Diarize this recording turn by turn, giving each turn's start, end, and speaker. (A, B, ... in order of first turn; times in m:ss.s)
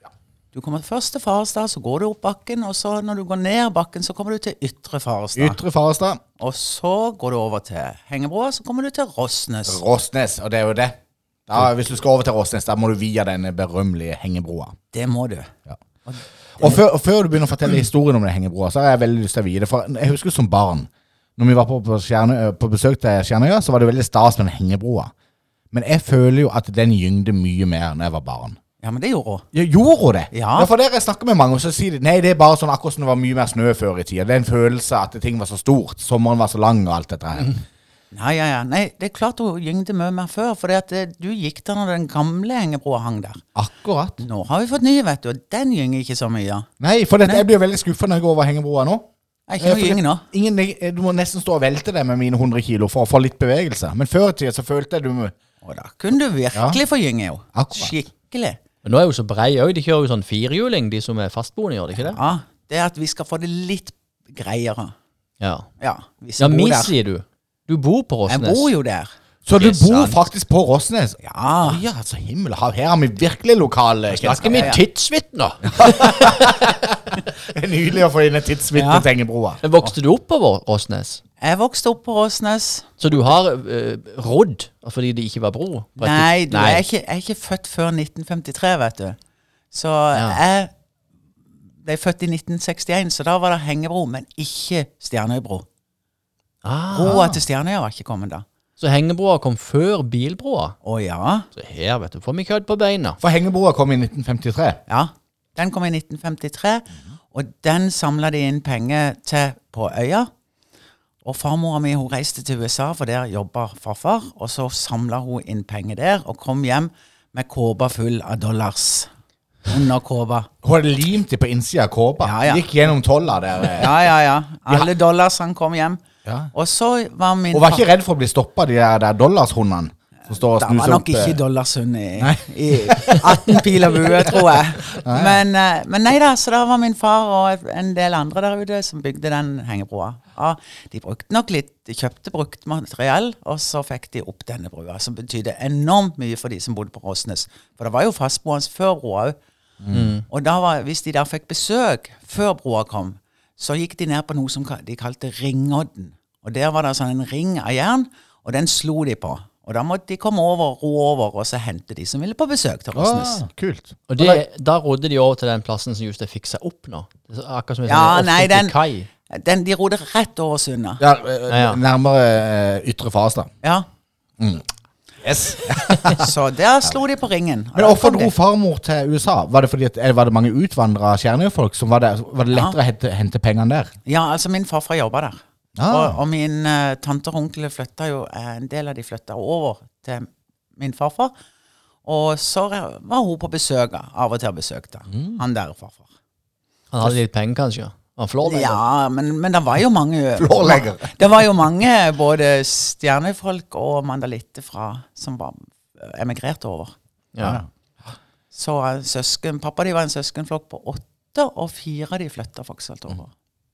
0:00.5-0:05.6 A
0:05.4-0:06.2 B
0:06.4-0:09.8 A
0:09.7-0:14.8 B
0:14.9-0:15.5 A
0:16.1-0:16.8 A
0:16.6-0:25.1 B
0:25.7-0:28.6 B
0:28.8-0:29.5 A
0:29.5-0:37.6 B
0:30.3-0:30.7 A
0:38.1-0:43.4 A
0:43.6-0:44.2 B
0:44.2-0:46.7 A
0:46.8-0:55.4 B
0:49.5-0:50.2 A
0:55.6-0:58.6 A
0:56.5-0:56.8 B
0:57.5-0:57.9 B
0:58.8-1:02.2 C
1:02.0-1:04.9 A
1:05.4-1:05.7 C
1:05.8-1:06.9 A
1:06.4-1:08.7 C
1:08.3-1:09.1 A
1:09.4-1:14.8 B
1:09.6-1:10.2 C
1:11.2-1:11.8 A
1:14.1-1:16.8 C
1:14.4-1:14.8 A
1:15.7-1:19.6 B
1:18.7-1:19.1 A
1:19.6-1:21.2 C
1:21.4-1:23.0 A
1:23.0-1:26.8 C
1:26.0-1:29.2 A
1:29.7-1:30.7 A
1:30.1-1:30.4 C
1:31.8-1:35.7 A
1:36.6-1:37.3 C
1:36.9-1:38.4 A
1:37.0-1:37.4 B
1:38.8-1:40.8 C
1:40.8-1:41.5 A
1:41.6-1:43.2 C
1:43.2-1:44.8 B
1:44.9-1:50.3 A
1:51.2-1:59.1 A
1:59.7-2:00.5 A
2:00.6-2:04.0 B
2:02.2-2:02.7 A
2:03.8-2:06.0 A
2:06.2-2:06.5 B
2:06.5-2:07.9 A
2:07.5-2:11.4 B
2:10.6-2:29.4 A
2:12.2-2:14.4 B
2:14.9-2:15.4 B
2:29.8-2:30.1 B
2:29.9-2:30.2 C
2:30.3-2:43.4 A
2:42.9-2:44.4 B
2:44.1-2:49.1 C
2:47.9-2:48.8 A
2:49.3-2:51.0 A
2:51.0-2:53.5 B
2:51.5-2:51.8 C
2:54.4-2:54.6 B
2:55.2-2:56.3 B
2:56.1-2:58.3 A
2:57.8-3:03.9 B
3:02.5-3:02.8 A
3:04.1-3:11.3 A
3:05.8-3:06.2 B
3:12.0-3:16.1 A
3:15.1-3:15.4 B
3:16.9-3:18.8 C
3:18.4-3:26.9 A
3:20.4-3:21.2 B
3:27.3-3:27.6 C
3:27.4-3:27.7 B
3:28.5-3:33.3 A